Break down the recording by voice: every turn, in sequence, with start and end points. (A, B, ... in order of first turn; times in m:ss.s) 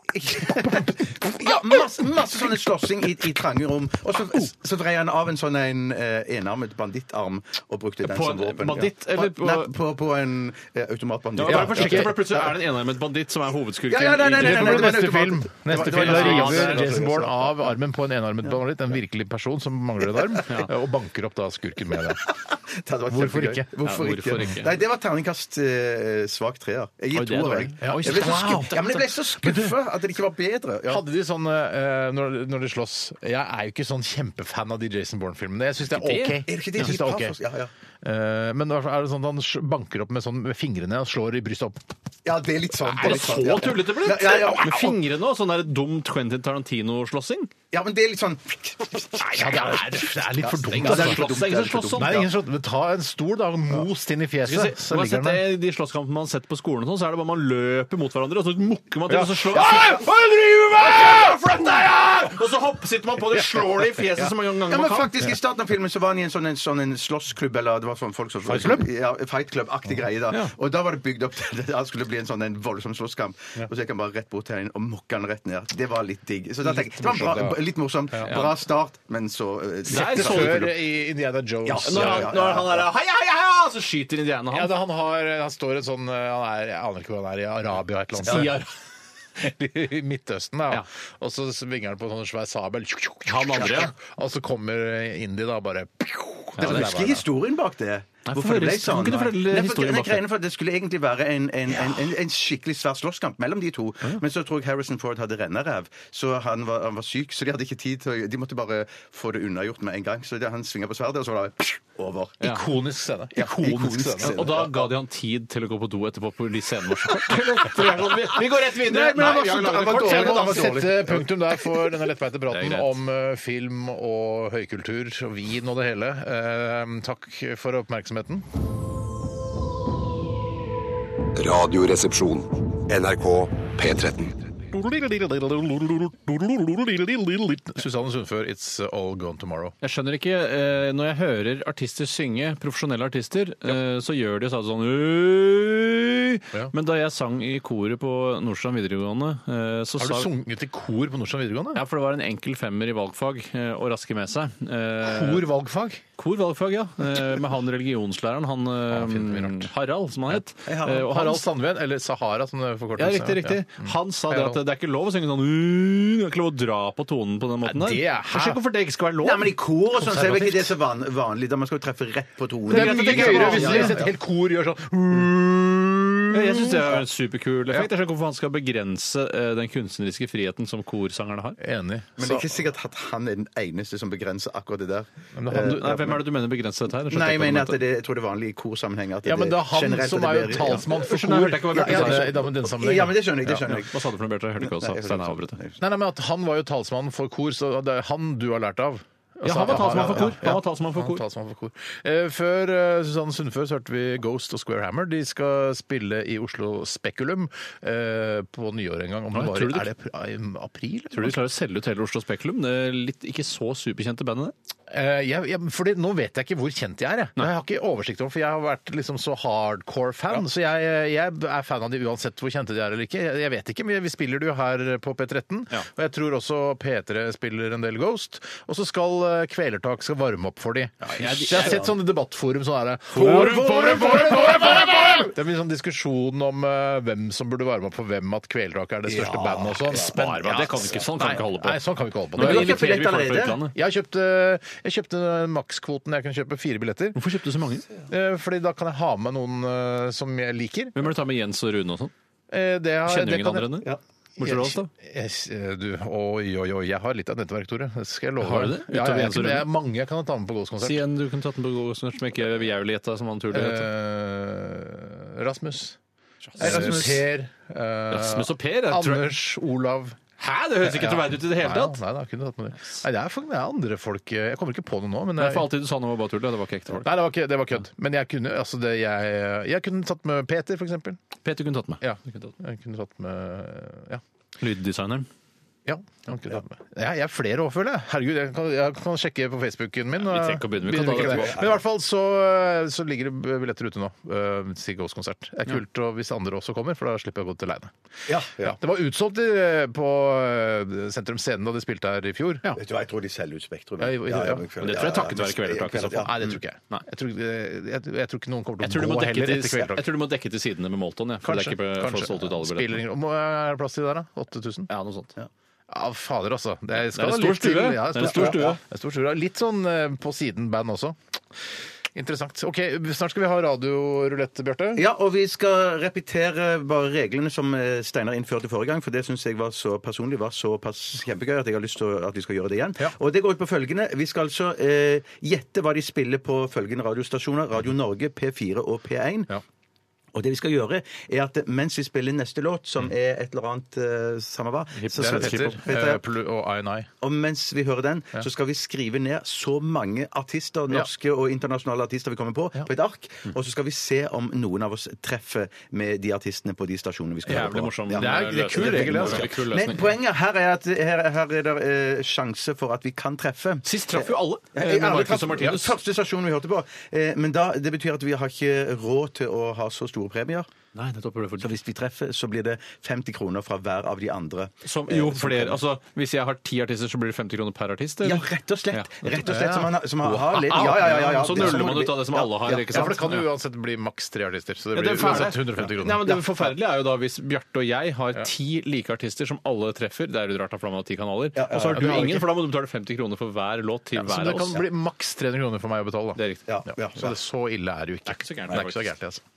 0:00.1-0:12.2 A
0:00.4-0:01.8 B
0:08.0-0:09.7 C
0:11.4-0:14.9 C
0:11.4-0:12.5 B
0:13.9-0:17.7 A
0:14.4-0:22.3 B
0:15.7-0:17.0 C
0:20.4-0:20.7 C
0:22.3-0:31.0 A
0:23.1-0:23.7 B
0:23.8-0:24.7 C
0:27.1-0:29.0 C
0:27.8-0:29.7 B
0:30.9-0:37.3 B
0:35.9-0:36.9 C
0:36.5-0:37.7 A
0:38.0-0:41.8 B
0:42.2-0:45.0 A
0:43.0-0:47.5 C
0:47.7-0:52.3 A
0:49.3-0:51.4 B
0:50.7-0:52.3 C
0:51.9-0:55.4 B
0:54.4-1:00.1 C
0:59.1-1:01.3 B
1:00.7-1:05.1 C
1:04.7-1:20.9 A
1:08.4-1:08.9 B
1:16.6-1:17.6 B
1:18.2-1:18.5 C
1:19.9-1:20.7 C
1:19.9-1:22.4 B
1:21.6-1:22.9 A
1:21.8-1:24.7 C
1:24.5-1:28.6 B
1:28.2-1:28.7 C
1:29.4-1:37.2 B
1:33.2-1:33.9 C
1:36.6-1:36.9 C
1:36.6-1:52.4 A
1:38.2-1:40.2 C
1:52.4-1:54.5 B
1:53.3-1:54.9 A
1:54.2-2:00.8 C
1:58.6-2:01.9 A
1:59.0-2:08.4 B
2:02.5-2:02.9 C
2:11.4-2:14.3 D
2:14.7-2:19.7 B
2:19.8-2:30.3 C
2:30.0-2:31.8 B
2:31.7-2:35.5 C
2:35.0-2:36.0 B
2:36.2-2:41.4 C
2:38.9-2:39.7 B
2:40.3-2:44.6 B
2:40.6-2:41.2 A
2:43.0-2:49.5 C
2:47.6-2:48.6 B
2:49.2-2:54.1 A
2:50.0-2:50.7 B
2:52.7-2:54.0 C
2:52.7-2:57.0 B
2:56.3-3:01.6 C
3:01.6-3:02.5 B
3:02.2-3:06.2 A
3:05.3-3:05.9 B
3:05.5-3:07.8 C
3:07.1-3:10.9 A
3:09.2-3:13.6 B
3:10.7-3:12.4 C
3:11.7-3:14.0 A
3:13.4-3:15.6 C
3:14.6-3:15.8 A
3:15.8-3:31.4 B
3:19.4-3:21.2 C
3:19.6-3:20.5 A
3:29.3-3:29.9 C
3:31.1-3:34.5 C
3:34.9-4:03.0 B
3:51.0-3:51.9 C
3:51.2-3:51.9 A
3:53.1-3:55.0 C
3:53.2-3:55.2 A
3:59.1-4:00.1 A
3:59.9-4:01.8 C
4:02.3-4:03.7 C
4:02.4-4:03.6 A
4:03.7-4:07.2 B
4:07.1-4:07.9 C
4:08.1-4:11.1 B
4:10.9-4:12.1 C
4:12.5-4:13.8 B
4:13.0-4:14.9 C
4:14.4-4:21.0 B
4:18.4-4:19.7 C
4:20.8-4:23.9 C
4:23.5-4:26.0 B
4:26.5-4:27.1 C
4:26.6-4:30.2 B
4:26.6-4:27.2 A
4:28.1-4:29.3 C
4:30.4-4:32.0 C
4:30.8-4:35.7 B
4:35.4-4:37.1 C
4:37.0-4:41.2 B
4:41.4-4:42.5 C
4:42.0-4:44.2 B
4:44.6-4:45.3 C
4:45.8-4:57.9 B
4:50.2-4:51.6 C
4:51.1-4:51.8 A
4:58.3-4:58.8 A
4:58.6-5:02.8 B
5:02.7-5:06.6 A
5:04.0-5:04.7 B
5:04.8-5:07.0 C
5:06.2-5:10.0 B
5:08.8-5:13.0 C
5:11.4-5:14.9 B
5:14.9-5:15.3 C
5:15.9-5:21.2 B
5:17.1-5:18.8 C
5:18.2-5:18.8 A
5:22.1-5:25.0 B
5:24.9-5:39.5 A
5:40.3-5:46.2 A
5:45.0-5:45.8 C
5:45.1-5:47.1 B
5:47.2-6:10.7 A
5:57.4-6:00.1 C
5:57.5-5:59.6 B
6:03.8-6:05.9 C
6:10.9-6:11.7 C
6:11.6-6:15.8 A
6:14.8-6:19.4 C
6:18.2-6:23.2 A
6:19.4-6:19.9 B
6:20.2-6:23.4 C
6:20.7-6:21.8 B
6:22.9-6:26.4 B
6:24.9-6:34.8 C
6:31.6-6:32.5 A
6:31.9-6:32.4 B
6:34.1-6:36.4 B
6:36.4-6:36.6 C
6:36.7-6:37.4 A
6:37.1-6:39.4 B
6:38.2-6:39.1 C